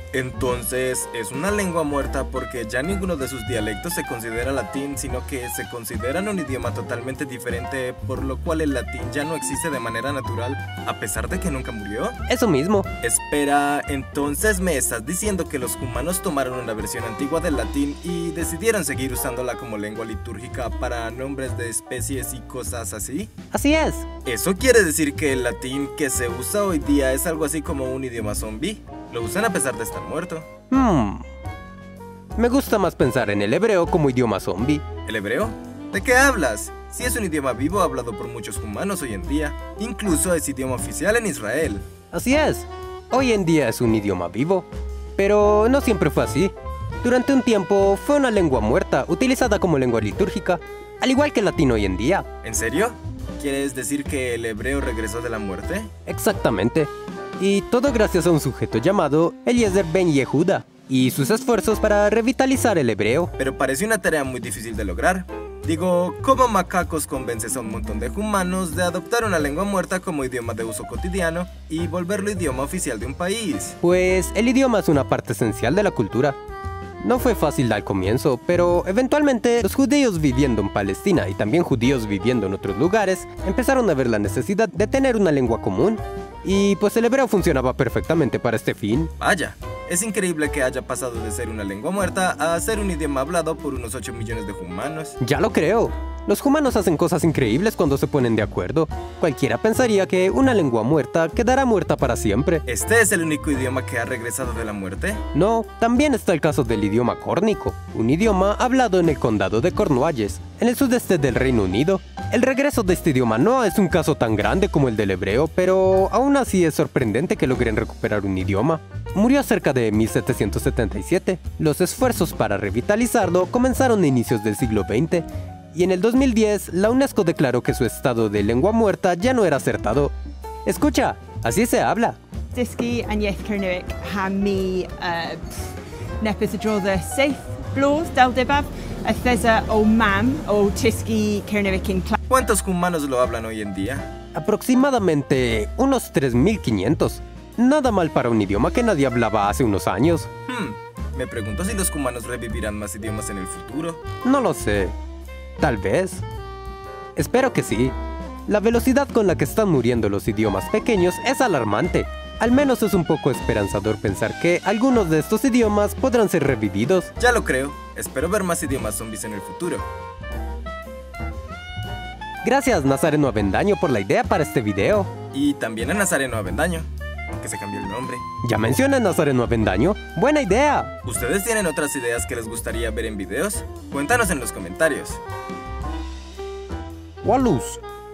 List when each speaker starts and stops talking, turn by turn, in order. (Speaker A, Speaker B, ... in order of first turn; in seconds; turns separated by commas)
Speaker A: 0.1-12.2, Speaker B: 12.3-12.9, Speaker A: 13.0-23.3, Speaker B: 23.5-24.1, Speaker A: 24.2-30.5, Speaker B: 30.7-31.2, Speaker B: 32.4-34.8, Speaker A: 35.0-41.8, Speaker B: 42.1-52.2, Speaker A: 52.4-55.9, Speaker B: 56.1-63.3, Speaker A: 63.4-73.8, Speaker B: 73.8-76.4, Speaker B: 77.0-89.1, Speaker A: 89.2-95.2, Speaker B: 95.2-102.6, Speaker A: 102.7-105.2, Speaker B: 105.3-130.1, Speaker B: 130.6-132.2, Speaker C: 132.5-135.6, Speaker C: 136.2-142.2, Speaker A: 142.3-144.1, Speaker B: 144.3-150.3, Speaker A: 150.5-154.0, Speaker B: 154.2-154.9, Speaker B: 155.6-156.2, Speaker B: 157.2-157.9, Speaker B: 158.5-167.1, Speaker A: 167.2-169.8, Speaker B: 172.4-175.1, Speaker A: 175.3-176.9, Speaker A: 177.4-178.2, Speaker B: 178.4-180.9, Speaker A: 181.0-185.2, Speaker B: 187.2-187.8